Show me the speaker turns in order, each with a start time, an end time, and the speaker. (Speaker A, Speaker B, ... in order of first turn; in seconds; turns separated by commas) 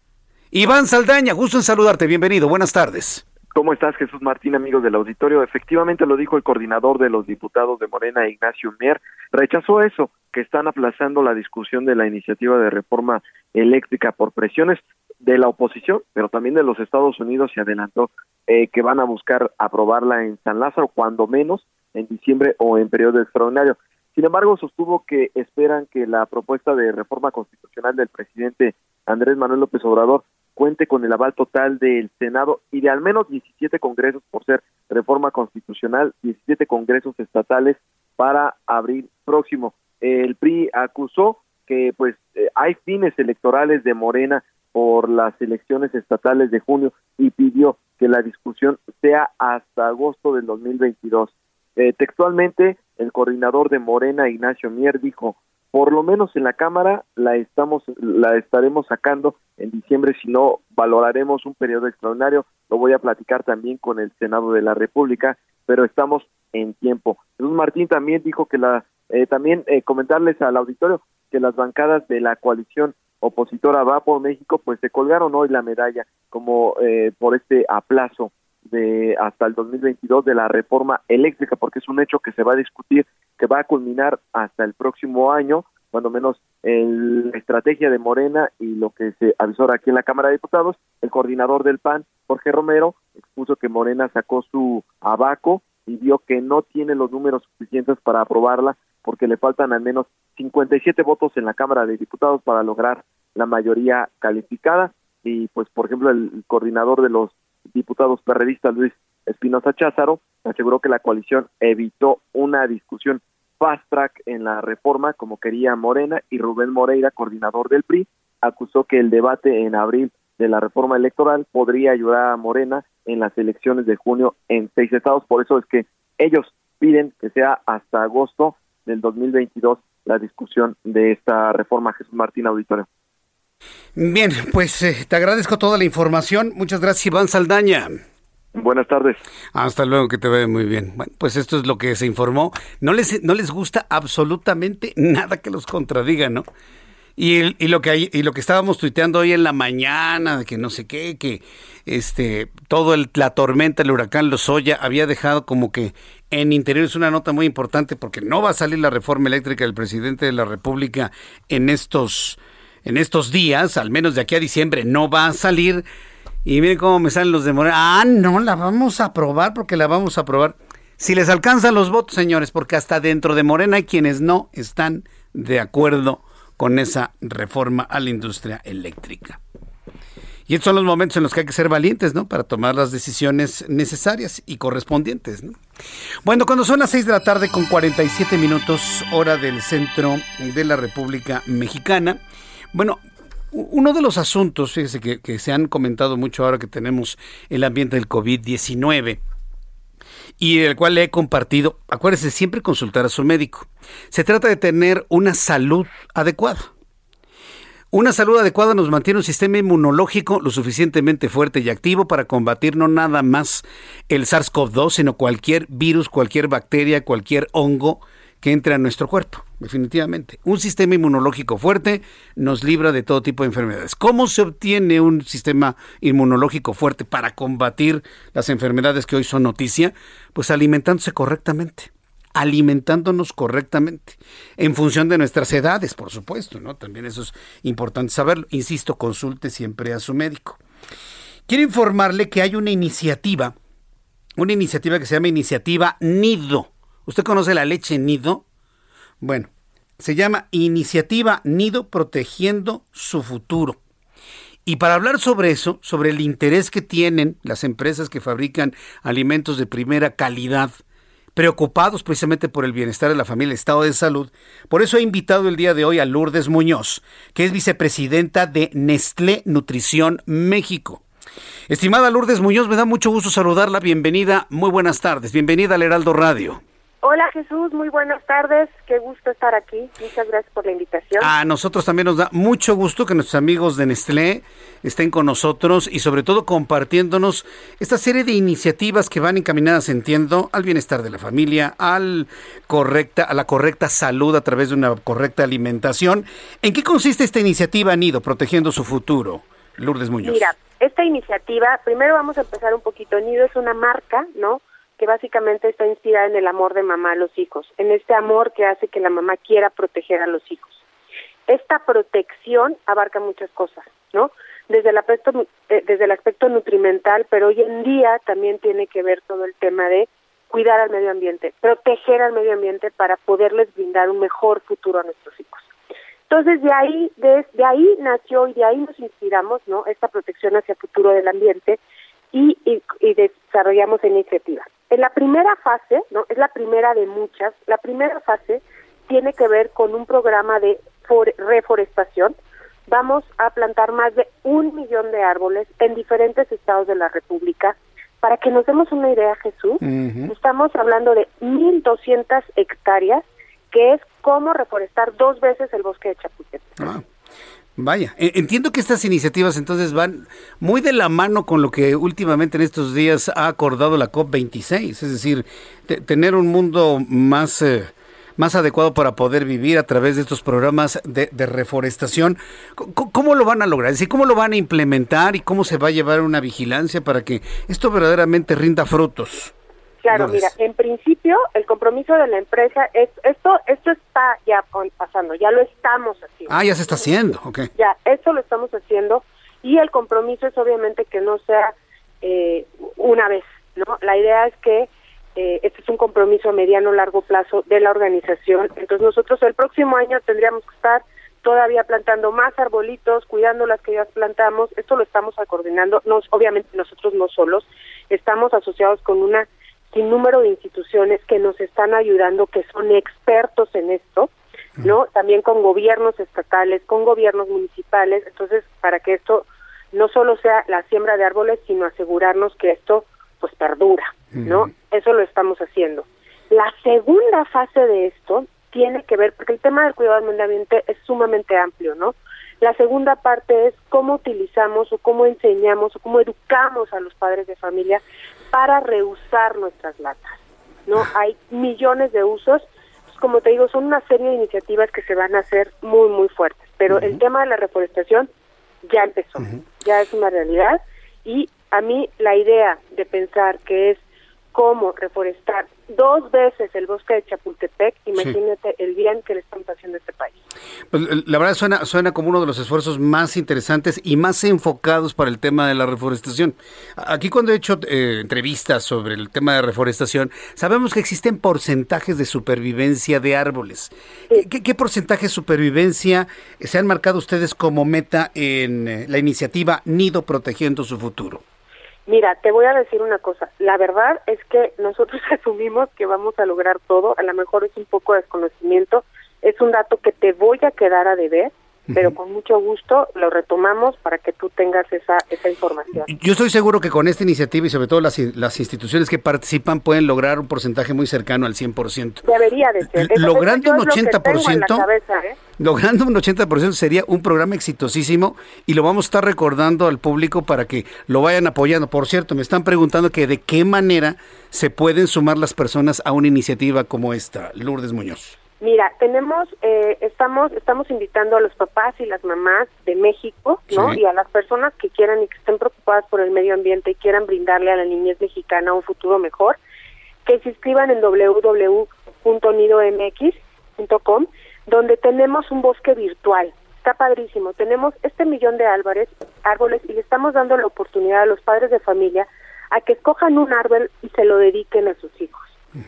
Speaker A: 0.5-3.2, Speaker B: 3.5-132.9, Speaker A: 134.0-138.0, Speaker B: 138.5-139.2, Speaker A: 139.5-146.5, Speaker A: 147.2-165.8, Speaker A: 166.4-179.4, Speaker A: 180.5-185.6, Speaker A: 186.2-192.2, Speaker A: 192.7-199.2, Speaker A: 200.4-206.7, Speaker A: 207.9-240.6, Speaker A: 241.5-243.5, Speaker A: 244.4-248.4, Speaker A: 249.2-253.8, Speaker A: 254.7-260.8, Speaker A: 261.4-271.0, Speaker A: 271.7-276.6, Speaker C: 277.0-281.3, Speaker A: 281.2-300.5, Speaker C: 300.2-310.8, Speaker C: 311.5-325.7, Speaker C: 326.3-331.8, Speaker C: 332.3-342.4, Speaker C: 342.9-356.8, Speaker A: 349.8-350.3, Speaker A: 357.8-379.5, Speaker C: 380.0-387.0, Speaker A: 380.1-380.5, Speaker A: 386.5-387.7, Speaker C: 387.8-414.3, Speaker C: 414.8-438.0, Speaker A: 424.4-424.7, Speaker C: 438.5-440.4, Speaker C: 440.9-448.3, Speaker A: 446.9-447.2, Speaker C: 448.8-454.0, Speaker C: 454.5-460.4, Speaker A: 460.9-481.4, Speaker C: 482.1-496.1, Speaker A: 491.9-492.1, Speaker A: 496.1-502.2, Speaker C: 502.2-505.4, Speaker A: 502.9-504.9, Speaker A: 505.6-518.4, Speaker C: 518.6-529.6, Speaker A: 523.7-524.0, Speaker C: 530.2-545.5